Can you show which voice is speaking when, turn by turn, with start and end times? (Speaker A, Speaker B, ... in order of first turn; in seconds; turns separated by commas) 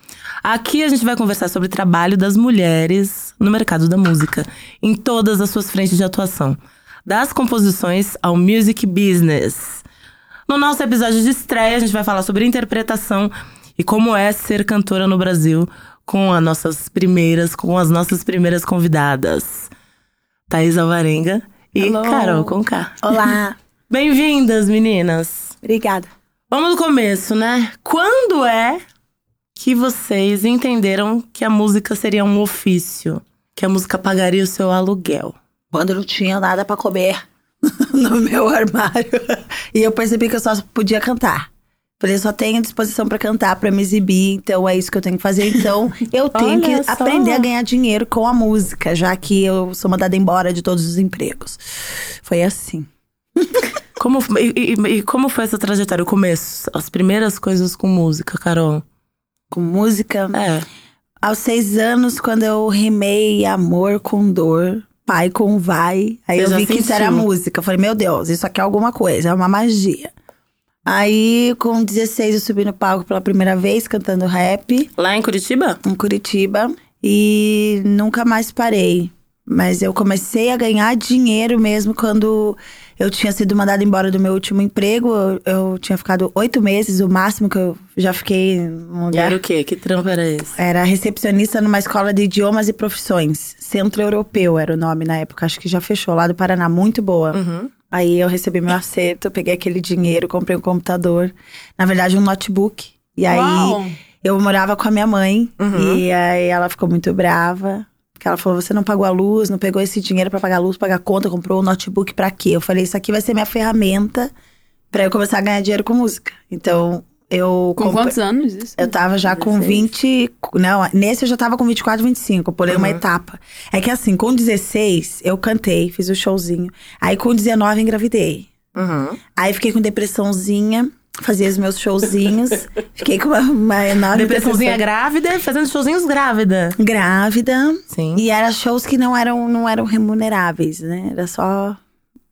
Speaker A: 0.4-9.8, Speaker A: 10.5-19.7, Speaker A: 20.5-23.3, Speaker B: 21.8-23.6, Speaker A: 23.9-25.5, Speaker B: 25.6-26.1, Speaker A: 26.5-28.8, Speaker A: 29.6-35.4, Speaker B: 35.7-41.5, Speaker B: 42.0-51.6, Speaker A: 46.3-47.5, Speaker B: 52.2-53.6, Speaker A: 54.0-58.8, Speaker B: 59.5-60.4, Speaker A: 60.3-60.6, Speaker B: 61.2-70.1, Speaker A: 66.4-67.2, Speaker B: 70.8-74.9, Speaker A: 75.0-75.8, Speaker B: 75.8-89.4, Speaker A: 89.1-90.5, Speaker B: 90.5-97.4, Speaker A: 97.3-97.7, Speaker B: 97.9-114.3, Speaker C: 103.3-104.0, Speaker A: 105.6-106.0, Speaker B: 114.9-118.1, Speaker C: 117.8-119.8, Speaker B: 118.8-128.5, Speaker A: 122.7-123.0, Speaker A: 128.7-129.2, Speaker B: 129.3-134.8, Speaker A: 134.1-136.8, Speaker B: 136.8-141.8, Speaker A: 137.9-138.2